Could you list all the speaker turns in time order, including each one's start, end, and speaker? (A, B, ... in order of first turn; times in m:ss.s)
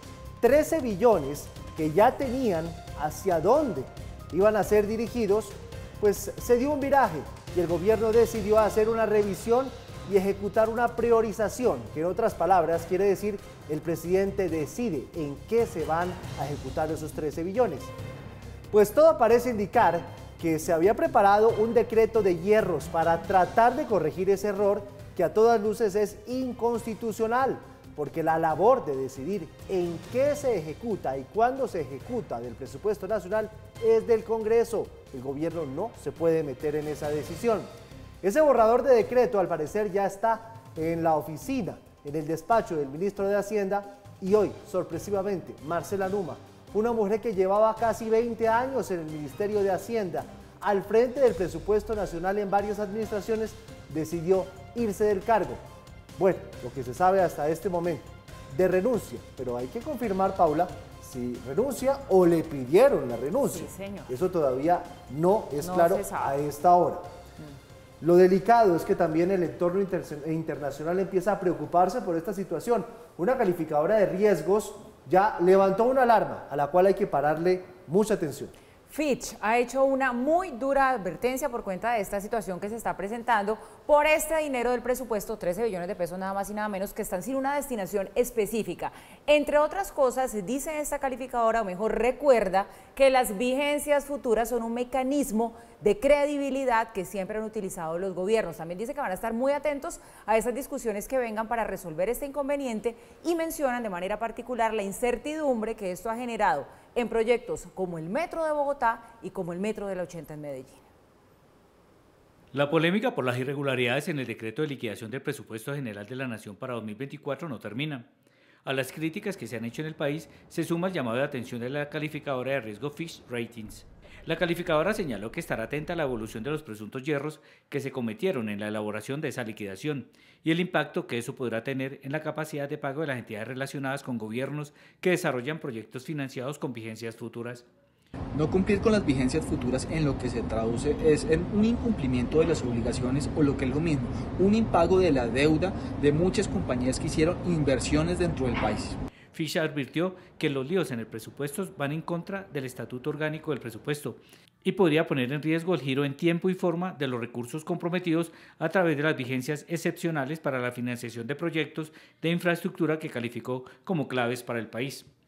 0:00.4-0:17.9 A
0:18.7-0:37.7 A
0:38.2-0:55.6 A
0:56.2-1:07.0 A
1:03.4-1:04.1 B
1:05.6-1:06.3 B
1:08.0-1:18.5 A
1:18.9-1:50.9 B
1:52.5-1:58.1 C
1:58.6-2:17.6 C
2:18.3-2:29.0 D
2:29.3-2:45.1 C